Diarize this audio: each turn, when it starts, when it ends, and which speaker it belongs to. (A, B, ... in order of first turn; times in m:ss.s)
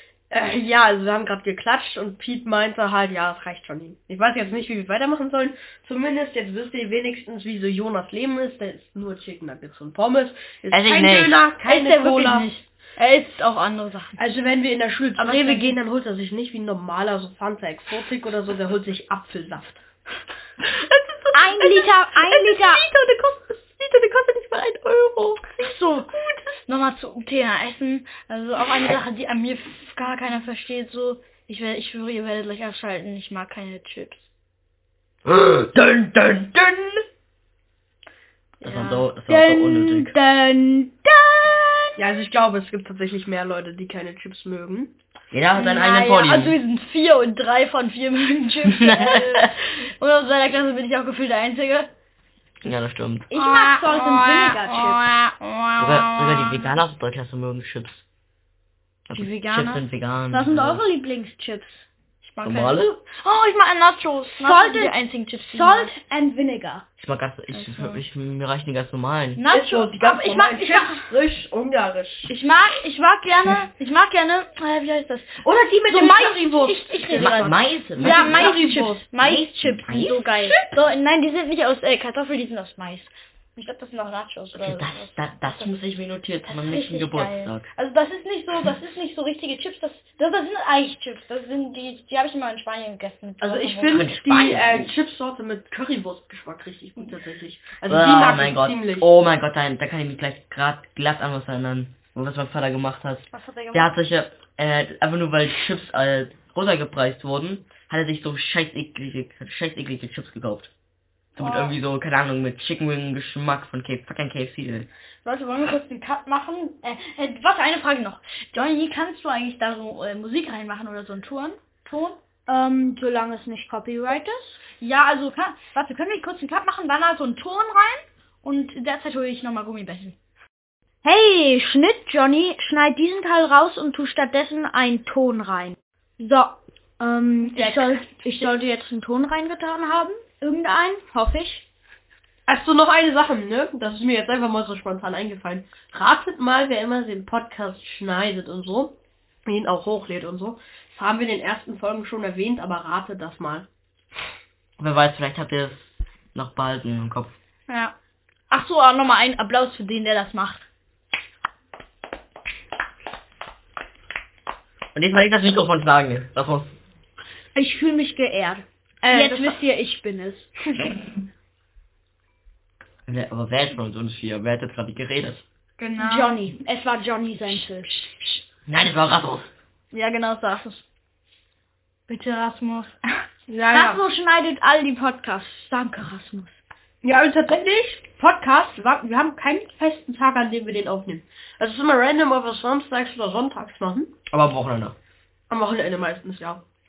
0:00.3-0:12.5 A
0:10.7-0:11.4 B
0:11.6-0:14.2 C
0:14.2-0:19.8 A
0:15.2-0:15.8 C
0:20.9-0:34.3 C
0:21.3-0:22.8 D
0:35.2-0:37.0 B
0:38.6-0:41.9 C
0:38.6-0:40.1 B
0:42.0-0:44.9 A
0:45.3-0:46.6 B
0:45.5-0:51.9 C
0:48.7-0:49.2 B
0:52.6-0:53.3 B
0:53.3-0:55.1 D
0:53.3-0:56.8 C
0:55.8-0:58.0 B
0:59.1-1:00.8 B
0:59.1-0:59.8 C
1:00.3-1:01.9 D
1:02.2-1:06.0 C
1:02.4-1:02.9 B
1:04.4-1:05.0 D
1:05.5-1:06.8 D
1:07.0-1:09.4 B
1:07.5-1:08.0 C
1:09.4-1:11.1 C
1:09.5-1:12.3 A
1:12.3-1:25.8 C
1:15.4-1:19.0 A
1:17.2-1:18.5 B
1:19.2-1:20.1 B
1:19.9-1:20.6 D
1:24.6-1:27.7 B
1:26.4-1:34.3 C
1:33.4-1:39.1 A
1:33.9-1:34.9 B
1:37.9-1:50.7 B
1:43.3-1:44.0 C
1:51.4-1:51.8 C
1:51.4-1:54.9 B
1:55.2-2:02.2 C
2:02.5-2:04.6 D
2:04.6-2:10.2 C
2:11.0-2:21.6 D
2:17.4-2:18.5 C
2:22.5-2:33.7 A
2:34.8-2:37.3 B
2:37.7-2:38.0 C
2:38.5-2:40.7 C
2:45.0-2:46.7 B
2:47.5-2:50.6 D
2:49.0-2:49.6 C
2:53.1-2:55.4 B
2:55.8-2:56.5 C
2:56.0-2:57.9 D
2:57.6-2:58.4 C
2:58.7-2:59.5 B
2:59.9-3:00.8 C
3:02.1-3:03.0 C
3:03.5-3:04.0 A
3:03.7-3:06.6 D
3:07.0-3:14.1 A
3:14.3-3:15.0 B
3:15.5-3:16.6 A